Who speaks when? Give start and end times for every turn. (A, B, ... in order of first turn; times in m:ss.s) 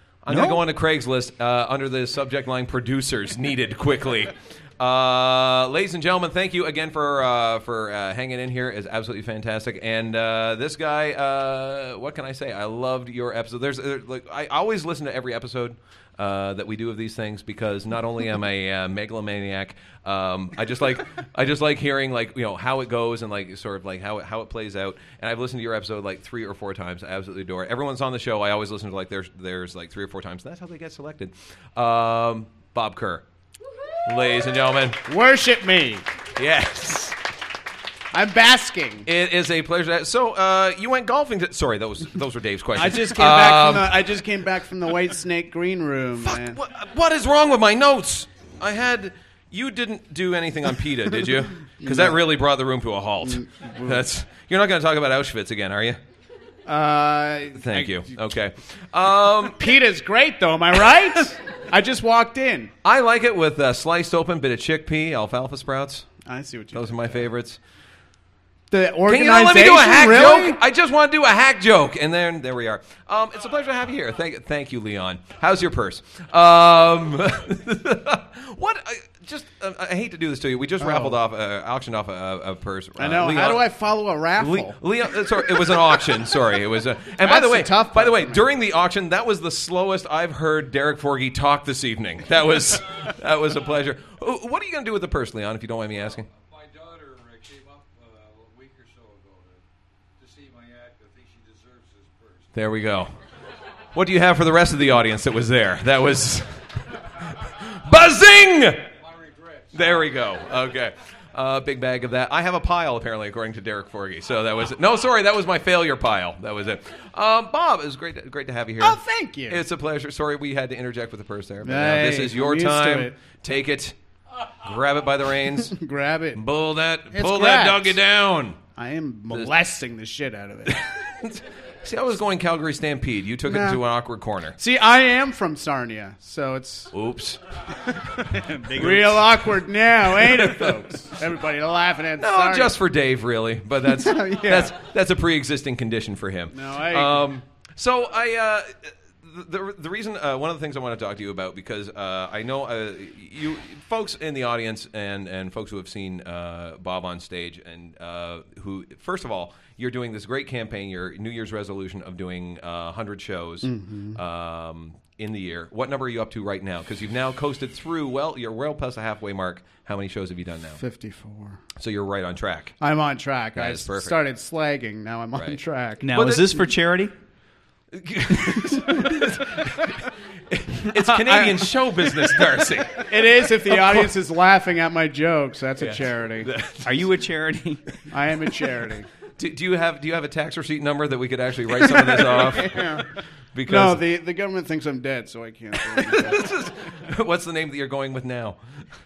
0:00.2-0:33.2 A
0:00.3-0:00.6 B
0:34.0-0:35.0 A
0:35.0-0:36.0 C
0:36.4-0:37.2 A
0:38.1-0:39.1 C
0:39.0-0:44.0 A
0:42.8-0:46.6 C
0:46.2-0:56.0 A
0:51.8-0:52.2 C
0:53.2-0:54.0 C
0:56.6-0:58.2 C
0:57.6-0:59.7 A
0:59.5-1:02.7 C
1:02.8-1:06.1 A
1:06.2-1:07.2 C
1:06.7-1:07.6 A
1:08.7-1:10.6 C
1:09.1-1:23.6 A
1:20.8-1:21.2 C
1:23.0-1:24.8 C
1:24.4-1:36.3 A
1:27.2-1:28.4 C
1:36.2-1:39.6 D
1:40.2-1:42.6 D
1:42.5-1:43.1 A
1:43.9-1:46.6 A
1:47.2-1:48.9 A
1:49.0-1:50.0 D
1:49.7-2:03.9 A
1:58.8-1:59.6 C
2:01.6-2:03.2 C
2:04.6-2:05.8 A
2:05.6-2:06.4 C
2:06.3-2:08.6 A
2:07.1-2:08.0 C
2:08.7-2:10.9 C
2:10.7-2:14.6 A
2:13.4-2:13.8 C
2:14.6-2:16.9 C
2:16.9-2:17.4 A
2:18.3-2:19.4 B
2:18.8-2:22.8 C
2:20.2-2:20.7 A
2:22.2-2:50.8 A
2:23.8-2:24.8 C
2:26.5-2:27.3 C
2:43.6-2:44.2 C
2:50.8-2:51.6 C
2:51.8-2:52.8 A
2:52.8-2:56.1 C
2:53.6-2:54.2 A
2:56.0-2:57.1 B
2:56.1-2:56.6 A
2:57.9-2:59.9 A
3:00.5-3:04.1 A
3:01.1-3:01.6 C
3:03.1-3:06.5 C
3:05.8-3:06.9 A
3:06.8-3:07.8 B
3:08.1-3:09.1 C
3:09.4-3:13.0 A
3:11.9-3:13.1 C
3:13.5-3:14.0 A
3:13.6-3:16.5 C
3:16.0-3:18.6 A